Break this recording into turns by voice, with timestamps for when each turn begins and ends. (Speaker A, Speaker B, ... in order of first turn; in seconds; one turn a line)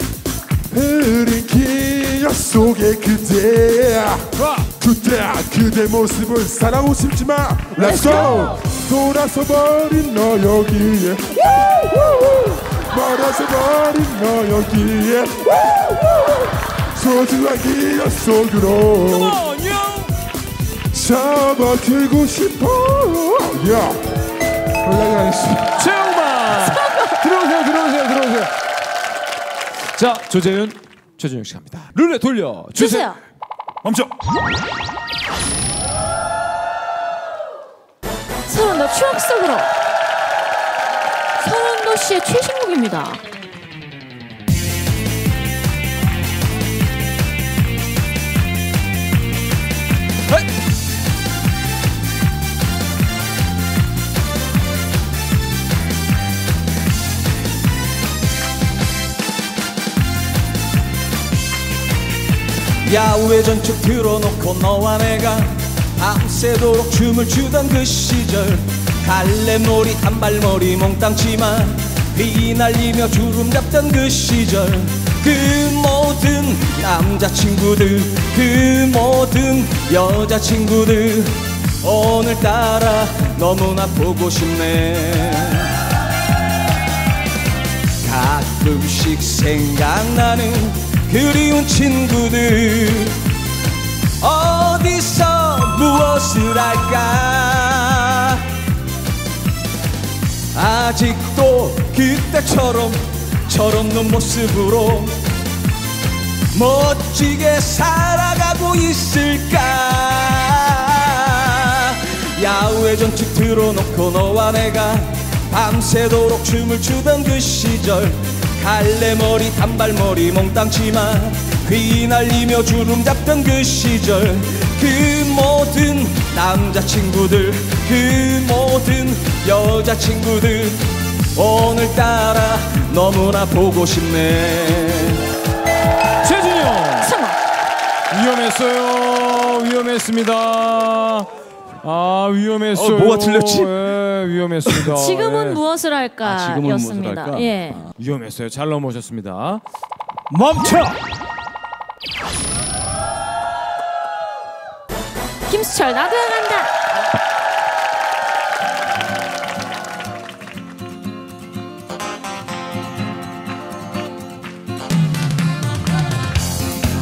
Speaker A: 0.7-11.6
Speaker B: 4.4-4.7
Speaker A: 12.4-16.0
Speaker A: 16.9-19.4
Speaker B: 19.1-20.1
Speaker A: 20.9-24.0
Speaker A: 24.8-25.7
Speaker B: 25.7-28.5
Speaker C: 26.5-27.1
Speaker B: 29.9-33.1
Speaker C: 32.8-33.2
Speaker C: 38.5-39.7
Speaker C: 41.4-43.2
Speaker D: 62.8-85.8
Speaker D: 88.0-93.2
Speaker D: 94.2-98.4
Speaker D: 100.5-105.2
Speaker D: 106.5-130.8
Speaker D: 131.3-135.2
Speaker B: 136.2-137.1
Speaker C: 137.0-137.4
Speaker B: 138.1-141.3
Speaker B: 141.8-145.6
Speaker D: 142.8-143.7
Speaker C: 144.9-147.9
Speaker D: 146.2-147.5
Speaker B: 148.0-149.6
Speaker B: 150.3-150.9
Speaker C: 155.4-156.7